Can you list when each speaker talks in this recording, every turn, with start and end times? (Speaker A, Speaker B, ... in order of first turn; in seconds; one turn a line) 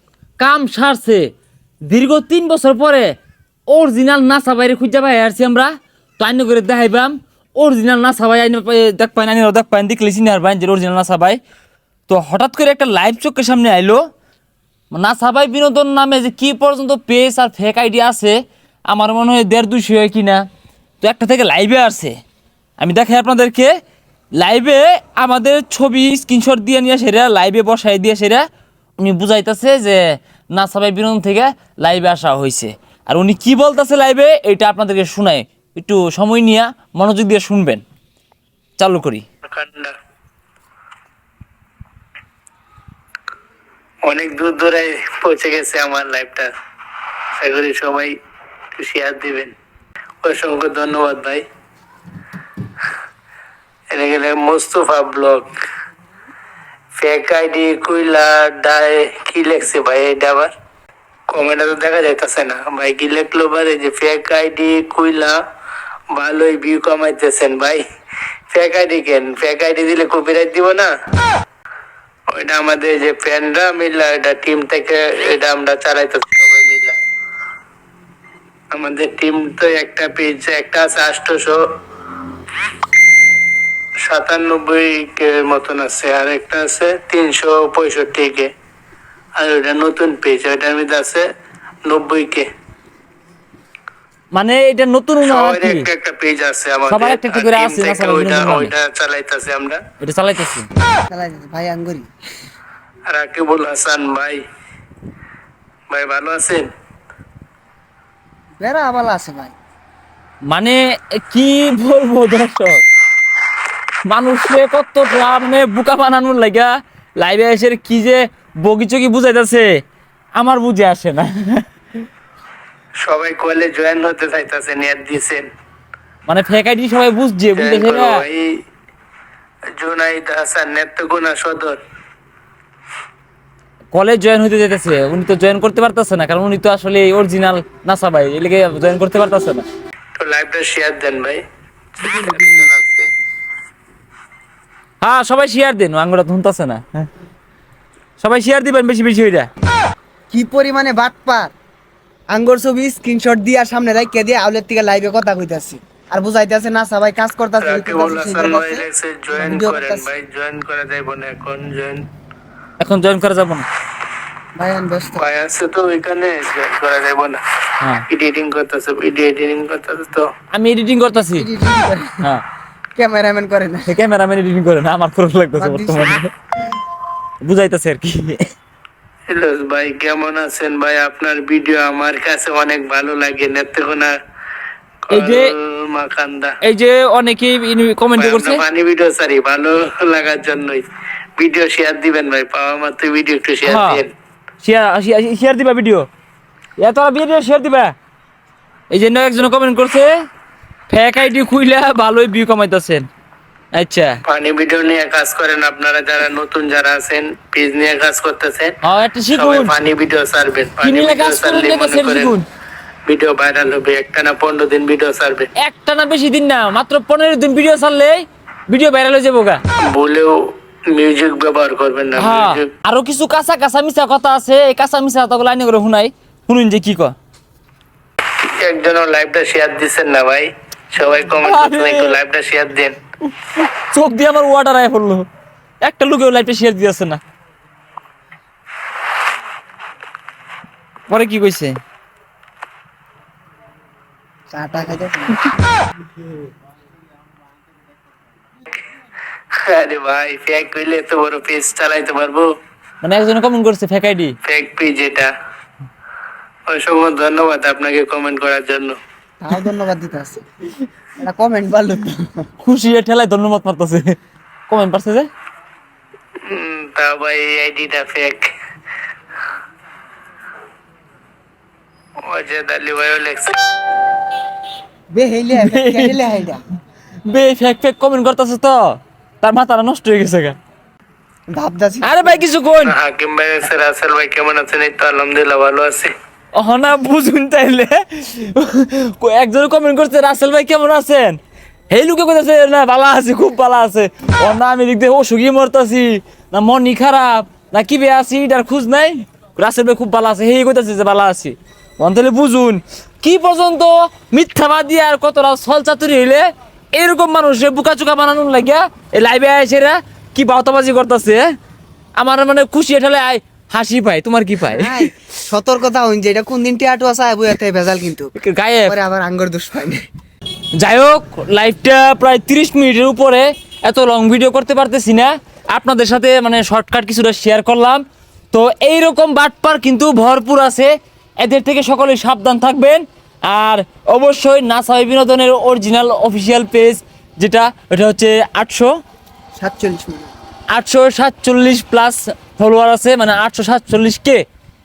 Speaker A: 0.4-1.3
Speaker A: 1.9-3.1
Speaker A: 3.7-11.4
Speaker A: 12.1-14.0
Speaker A: 14.9-18.4
Speaker A: 18.9-20.4
Speaker A: 21.0-22.2
Speaker A: 22.8-23.7
Speaker A: 24.4-28.4
Speaker A: 29.0-30.0
Speaker A: 30.5-37.8
Speaker A: 38.8-39.2
Speaker B: 39.5-39.9
Speaker B: 44.0-46.5
Speaker B: 47.4-48.1
Speaker B: 48.7-49.5
Speaker B: 50.2-51.4
Speaker B: 53.9-55.5
Speaker B: 56.9-60.5
Speaker B: 61.3-65.4
Speaker B: 66.1-67.8
Speaker B: 68.5-70.9
Speaker B: 72.3-77.0
Speaker B: 78.7-81.6
Speaker B: 84.0-88.5
Speaker B: 89.4-91.2
Speaker B: 91.8-92.5
Speaker A: 94.3-95.9
Speaker B: 95.2-99.8
Speaker A: 96.9-98.7
Speaker A: 100.0-100.7
Speaker C: 101.1-102.1
Speaker B: 103.1-104.4
Speaker B: 105.9-106.7
Speaker C: 108.6-109.5
Speaker A: 110.5-112.8
Speaker A: 114.0-119.7
Speaker A: 120.3-121.6
Speaker B: 123.0-125.5
Speaker A: 126.3-128.2
Speaker B: 127.6-128.5
Speaker B: 129.8-131.8
Speaker A: 133.9-139.6
Speaker B: 140.2-141.4
Speaker B: 142.0-143.1
Speaker C: 142.0-142.7
Speaker A: 145.0-147.1
Speaker A: 148.2-149.5
Speaker C: 150.3-151.5
Speaker C: 152.3-160.1
Speaker B: 157.6-162.1
Speaker A: 162.8-163.7
Speaker C: 164.6-165.2
Speaker B: 165.1-167.4
Speaker A: 167.8-168.1
Speaker B: 168.1-170.3
Speaker A: 170.5-171.5
Speaker C: 171.3-172.2
Speaker C: 172.9-173.9
Speaker A: 173.9-176.3
Speaker C: 175.6-176.2
Speaker A: 177.4-178.5
Speaker B: 179.3-184.1
Speaker B: 185.1-186.5
Speaker A: 185.1-185.5
Speaker A: 186.6-188.6
Speaker B: 188.2-190.8
Speaker B: 191.4-194.1
Speaker A: 193.6-194.0
Speaker A: 194.6-196.1
Speaker A: 196.8-197.9
Speaker A: 198.9-200.1
Speaker A: 200.9-203.1
Speaker A: 203.7-204.2
Speaker B: 204.2-208.7
Speaker A: 208.8-209.7
Speaker B: 209.3-212.4
Speaker A: 210.8-212.4
Speaker B: 213.1-215.5
Speaker A: 215.6-219.6
Speaker B: 219.9-222.7
Speaker A: 222.2-227.1
Speaker B: 228.5-232.9
Speaker A: 231.4-232.2
Speaker A: 233.3-235.2
Speaker A: 235.8-237.2
Speaker A: 241.1-241.8
Speaker C: 244.5-245.5
Speaker B: 249.6-252.5
Speaker A: 253.0-254.3
Speaker B: 254.4-255.3
Speaker B: 256.7-259.0
Speaker C: 259.4-260.4
Speaker C: 261.2-262.4
Speaker A: 262.6-264.2
Speaker A: 264.7-265.3
Speaker B: 266.4-268.5
Speaker B: 272.2-273.6
Speaker C: 275.1-276.6
Speaker A: 275.6-276.2
Speaker A: 277.2-280.6
Speaker C: 281.5-282.4
Speaker A: 282.0-282.9
Speaker B: 282.8-286.1
Speaker A: 286.5-291.4
Speaker A: 291.9-311.4
Speaker A: 312.2-315.1
Speaker C: 314.7-318.3
Speaker A: 318.4-318.9
Speaker C: 318.9-320.0
Speaker A: 320.8-338.9
Speaker C: 339.6-340.3
Speaker A: 340.7-344.4